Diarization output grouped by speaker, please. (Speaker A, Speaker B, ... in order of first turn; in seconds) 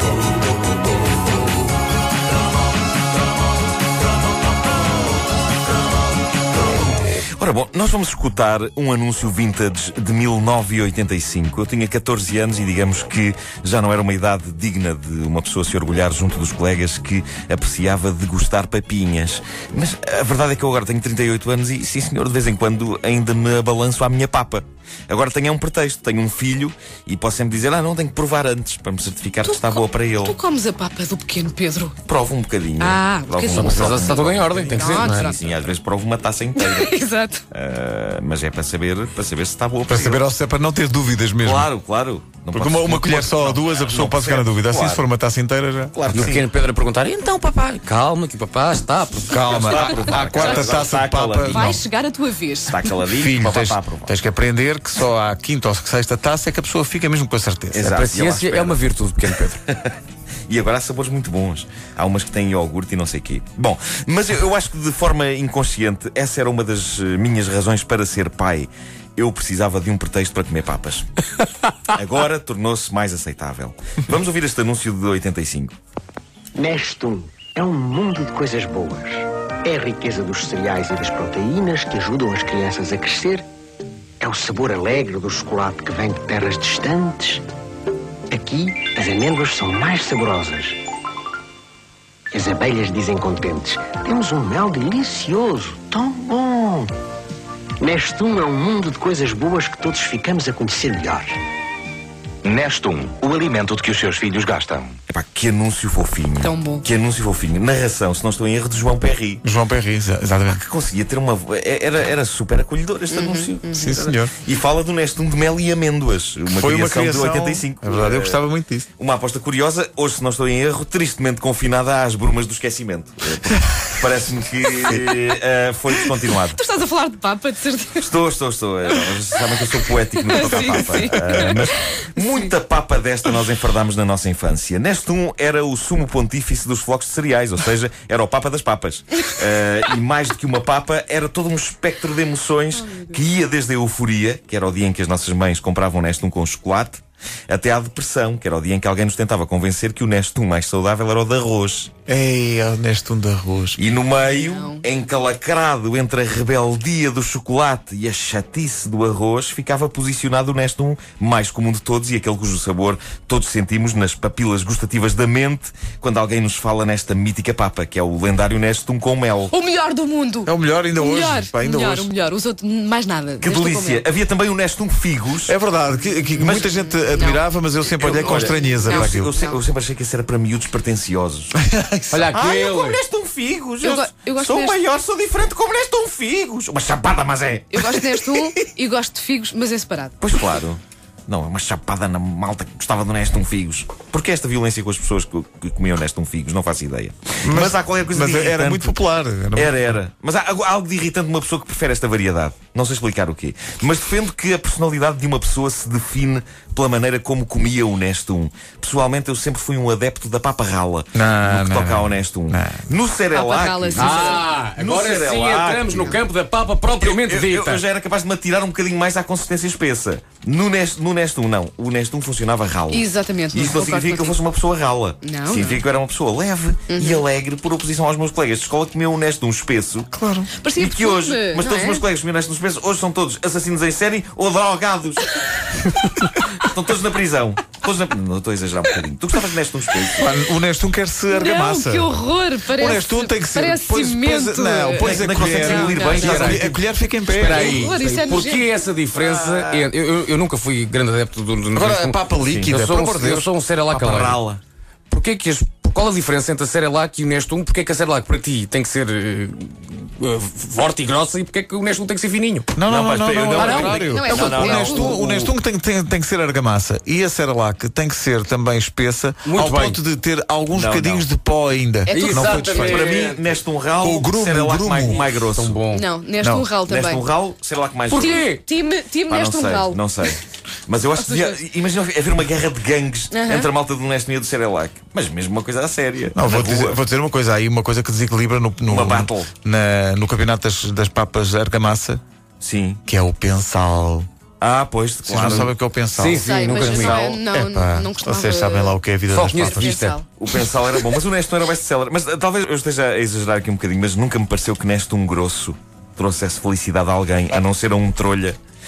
Speaker A: 7.4-30.4, 32.0-36.9, 37.5-40.2, 41.4-45.1, 45.9-46.4, 49.4-51.8, 52.7-54.1, 57.7-59.9, 60.5-71.1, 71.9-75.7, 105.1-109.4, 110.5-126.6, 128.0-151.9, 153.8-169.5, 173.4-175.5, 176.4-176.7, 178.0-181.5, 182.3-188.2, 190.2-199.0, 199.5-216.2, 217.0-230.1, 230.8-235.3, 236.5-240.3, 245.0-246.8, 249.1-249.9, 252.5-252.8, 253.9-254.6, 262.9-265.5, 270.7-271.3, 272.2-275.8, 276.9-278.5, 279.3-287.0, 288.9-289.5, 292.6-293.0, 294.6-295.7, 300.4-308.6
Speaker B: 29.4-31.9, 32.8-35.4, 36.5-37.4, 51.5-52.8, 106.4-106.8, 113.1-113.9, 126.6-128.1, 130.3-132.5, 154.3-154.8, 169.5-174.1, 177.0-177.4, 178.1-179.6, 183.8-184.8, 187.7-190.2, 213.3-214.5, 222.9-224.4, 225.2-225.8, 226.9-227.2, 230.5-232.0, 241.3-246.6, 247.4-248.7, 263.9-265.0, 275.9-277.2, 278.1-280.0, 281.2-281.6, 283.3-283.7, 296.3-299.0, 299.6-300.2
Speaker C: 33.5-35.3, 46.1-50.6, 57.8-59.6, 182.1-182.9, 213.9-216.6, 245.6-246.7, 247.2-254.4, 255.1-262.6, 263.5-265.1, 269.4-270.0, 272.1-273.4, 275.5-276.1, 278.1-278.6, 296.1-297.4, 299.3-300.2
Speaker D: 39.9-41.7, 42.5-46.4, 49.3-51.8, 53.1-58.0, 109.4-110.6, 113.7-114.3, 116.5-118.8, 152.1-153.8, 170.4-172.1, 175.5-179.3, 181.7-182.5, 197.4-199.8, 211.1-212.8, 230.1-230.5, 240.2-247.9, 251.7-253.5, 262.7-273.2, 274.0-275.2, 276.4-276.7, 286.3-292.2, 293.1-294.3, 295.2-299.9
Speaker E: 76.5-83.5, 84.2-87.4, 88.3-90.8, 92.3-96.9, 97.8-101.3
Speaker F: 102.4-105.0